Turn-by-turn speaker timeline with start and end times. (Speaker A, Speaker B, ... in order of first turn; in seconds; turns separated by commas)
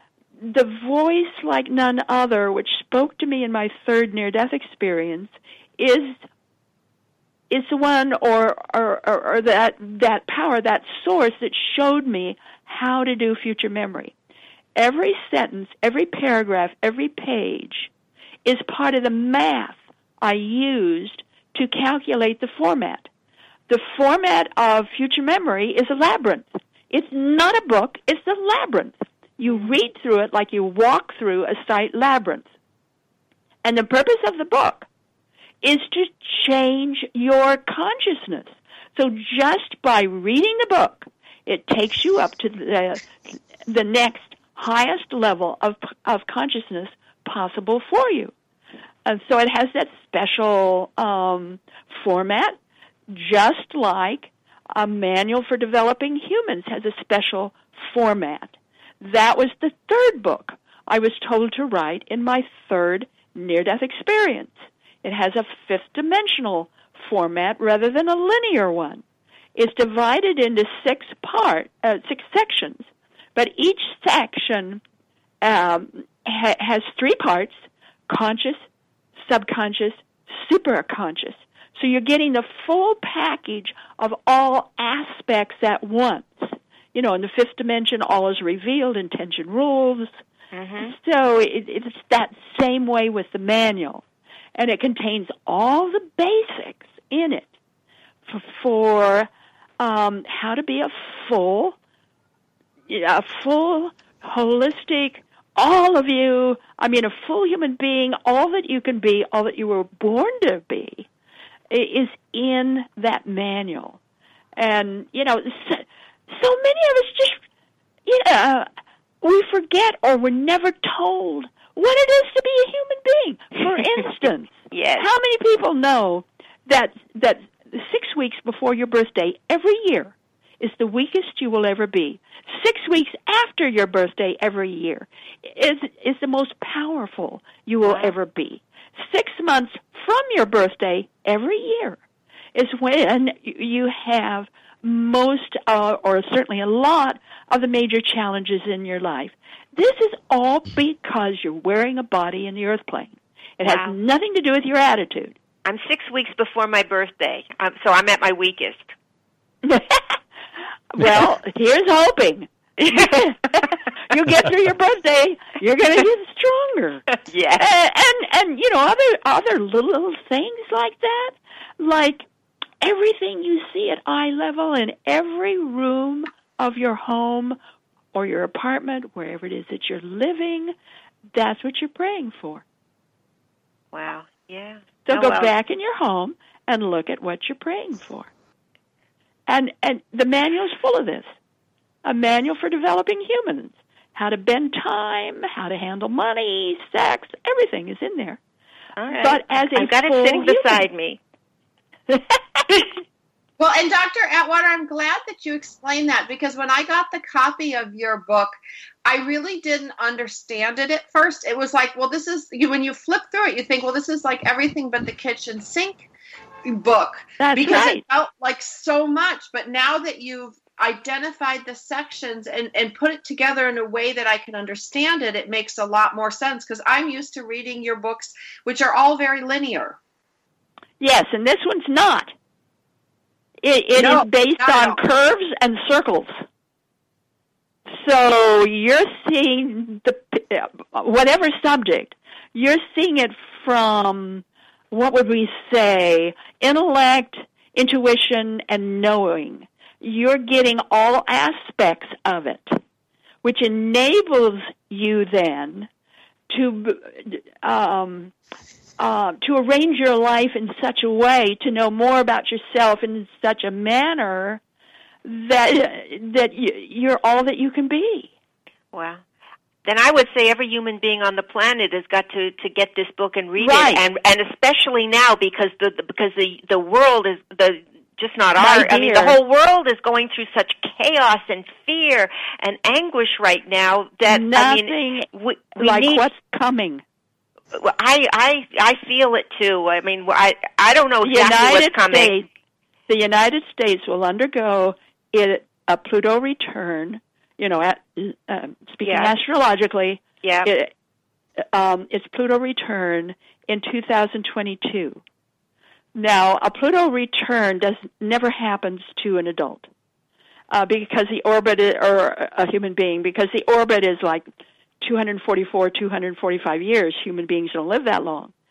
Speaker A: 0.4-6.2, Speaker A: 7.5-14.1, Speaker A: 14.8-17.9, Speaker A: 18.4-23.1, Speaker A: 23.7-32.5, Speaker B: 29.4-29.7, Speaker A: 33.6-34.9, Speaker A: 35.6-48.3, Speaker A: 49.0-52.6, Speaker A: 53.1-69.0, Speaker A: 69.5-74.8, Speaker A: 75.4-78.6, Speaker A: 79.2-90.2, Speaker B: 90.5-90.9, Speaker A: 90.8-94.0, Speaker A: 94.5-97.5, Speaker A: 98.3-101.8, Speaker A: 102.9-111.1, Speaker A: 111.7-114.0, Speaker A: 114.6-117.4, Speaker A: 118.1-118.7, Speaker A: 119.2-142.0, Speaker B: 124.7-125.1, Speaker B: 137.8-138.1, Speaker A: 142.5-155.3, Speaker B: 153.6-154.0, Speaker B: 155.6-158.9, Speaker A: 159.6-160.2, Speaker A: 160.9-167.1, Speaker B: 162.8-163.8, Speaker B: 167.1-167.7, Speaker A: 167.6-172.2, Speaker A: 172.8-177.6, Speaker A: 178.1-180.7, Speaker A: 181.3-182.6, Speaker B: 183.9-185.5, Speaker A: 185.1-188.3, Speaker A: 189.5-191.3, Speaker A: 192.0-198.4, Speaker B: 199.0-201.2, Speaker A: 199.1-200.8, Speaker C: 203.6-208.5, Speaker C: 209.1-216.1, Speaker C: 216.7-230.0, Speaker A: 217.4-218.0, Speaker A: 231.0-232.3, Speaker A: 233.6-236.4, Speaker C: 233.9-235.0, Speaker A: 237.9-252.8, Speaker A: 253.4-255.9, Speaker A: 256.5-258.3, Speaker A: 259.0-264.6, Speaker A: 265.2-268.3, Speaker B: 268.9-269.2, Speaker B: 269.8-286.2, Speaker A: 273.6-274.0, Speaker A: 278.6-279.4, Speaker A: 284.3-287.0, Speaker B: 287.7-292.4, Speaker A: 291.2-292.5, Speaker A: 293.1-300.9, Speaker B: 299.0-299.3, Speaker B: 300.4-300.7, Speaker A: 301.7-305.2, Speaker A: 306.1-309.9, Speaker A: 310.7-314.4, Speaker A: 315.0-318.5